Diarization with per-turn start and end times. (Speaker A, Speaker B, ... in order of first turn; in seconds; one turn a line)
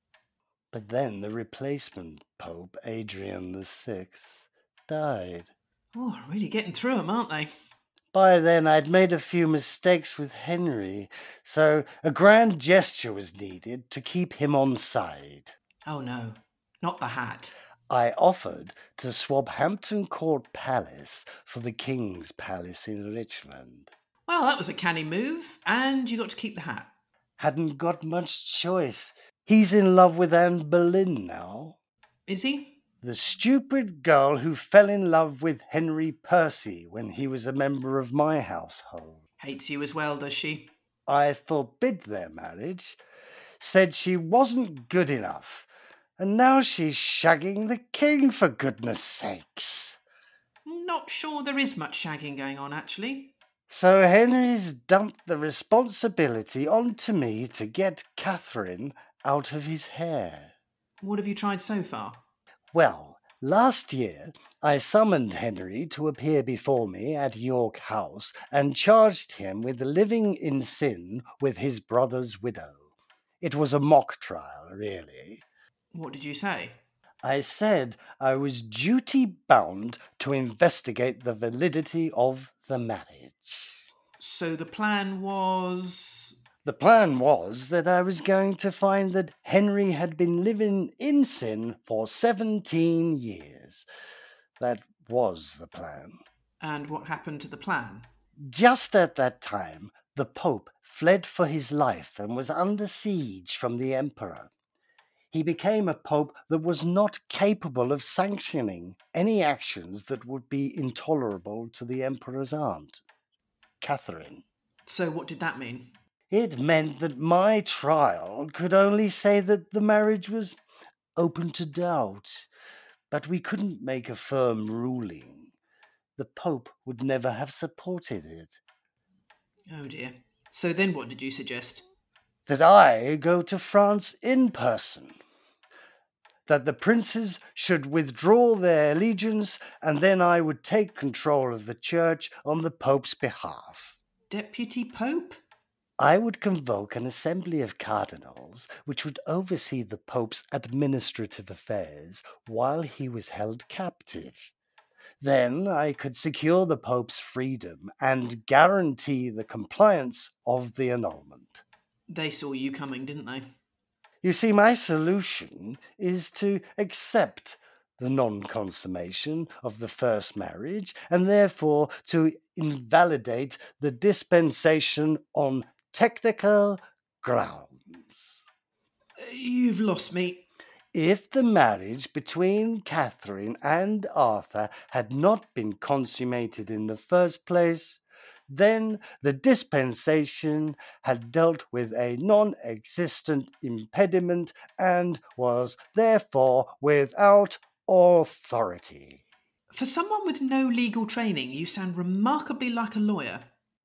Speaker A: 0.7-5.5
Speaker B: 5.9-7.5
Speaker A: 8.1-15.6
Speaker B: 15.9-17.5
Speaker A: 17.9-23.9
Speaker B: 24.3-26.9
Speaker A: 27.4-31.8
Speaker B: 32.3-32.8
Speaker A: 33.0-39.2
Speaker B: 39.4-40.7
Speaker A: 41.1-43.0
Speaker A: 43.6-50.0
Speaker B: 50.6-53.3
Speaker A: 53.7-60.5
Speaker B: 61.0-62.2
Speaker A: 62.7-72.9
Speaker A: 73.4-75.4
Speaker B: 75.9-76.8
Speaker A: 77.2-83.8
Speaker B: 84.2-86.4
Speaker A: 86.6-93.9
Speaker A: 94.6-96.2
Speaker B: 96.6-98.1
Speaker A: 98.4-104.5
Speaker A: 105.3-113.0
Speaker A: 113.8-114.4
Speaker B: 114.9-115.9
Speaker A: 116.3-120.6
Speaker A: 121.2-122.5
Speaker A: 123.1-125.5
Speaker A: 126.2-128.6
Speaker B: 129.7-131.8
Speaker A: 132.5-135.2
Speaker A: 136.5-144.0
Speaker B: 144.3-145.4
Speaker A: 146.0-154.5
Speaker A: 155.2-161.6
Speaker B: 162.1-163.5
Speaker A: 164.2-178.4
Speaker B: 179.2-180.5
Speaker A: 180.9-199.2
Speaker B: 199.7-203.5